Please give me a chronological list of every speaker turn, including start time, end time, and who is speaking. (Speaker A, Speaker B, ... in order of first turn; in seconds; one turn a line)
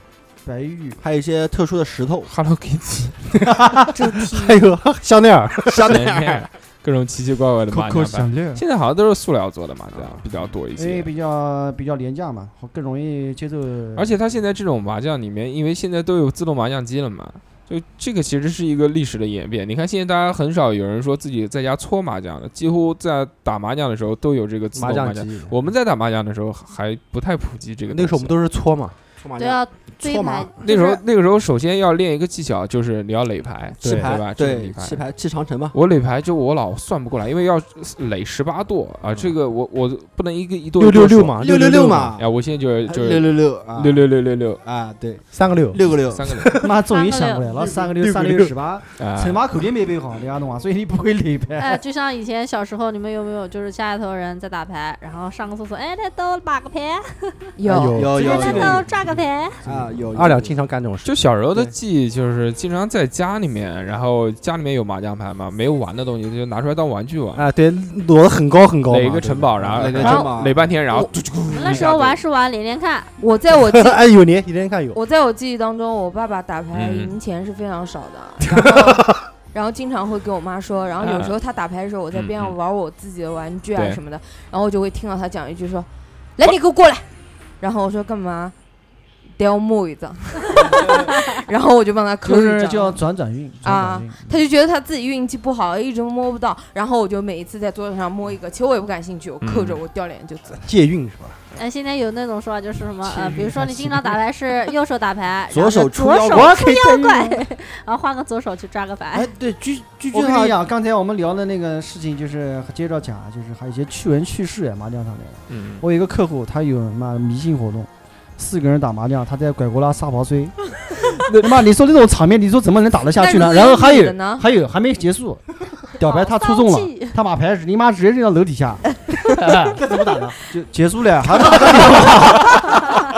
Speaker A: 0.4-1.0
Speaker B: 1.0-2.3
Speaker C: 2.3-3.2
Speaker D: 4.0-5.9
Speaker B: 5.7-6.5
Speaker C: 5.9-11.1
Speaker A: 7.7-8.6
Speaker A: 10.8-14.1
Speaker C: 13.9-28.3
Speaker D: 24.7-25.5
Speaker D: 27.9-28.9
Speaker B: 29.2-30.5
Speaker E: 29.4-30.8
Speaker C: 30.6-35.0
Speaker D: 33.8-34.1
Speaker B: 33.8-35.7
Speaker C: 35.7-41.4
Speaker D: 40.8-42.1
Speaker B: 41.4-42.2
Speaker C: 42.2-44.6
Speaker B: 42.9-44.0
Speaker B: 44.6-46.5
Speaker D: 45.3-46.7
Speaker C: 46.1-46.5
Speaker A: 46.6-51.8
Speaker E: 46.9-47.9
Speaker D: 48.0-48.5
Speaker C: 49.0-49.4
Speaker E: 51.5-57.4
Speaker F: 57.6-58.0
Speaker D: 57.7-58.4
Speaker B: 57.9-58.9
Speaker A: 58.1-59.2
Speaker E: 58.2-59.6
Speaker B: 59.6-60.5
Speaker D: 59.6-61.2
Speaker C: 61.0-67.5
Speaker D: 67.3-70.1
Speaker C: 68.9-72.2
Speaker B: 69.6-70.7
Speaker F: 70.0-70.3
Speaker E: 71.5-73.1
Speaker F: 73.2-74.0
Speaker D: 73.5-75.0
Speaker F: 74.9-87.0
Speaker C: 76.7-77.1
Speaker D: 78.5-79.2
Speaker C: 81.0-81.3
Speaker C: 82.1-82.5
Speaker C: 83.7-84.0
Speaker F: 87.6-88.5
Speaker F: 89.4-93.0
Speaker A: 92.2-94.4
Speaker F: 93.6-100.6
Speaker C: 99.4-99.8
Speaker D: 100.6-101.4
Speaker E: 101.5-109.3
Speaker A: 103.1-104.1
Speaker B: 105.5-106.5
Speaker A: 106.3-107.4
Speaker D: 109.3-110.5
Speaker A: 110.1-120.7
Speaker C: 115.5-115.8
Speaker C: 121.2-121.6
Speaker A: 121.3-129.8
Speaker F: 123.2-124.5
Speaker E: 126.0-127.2
Speaker D: 129.8-130.3
Speaker A: 130.5-132.5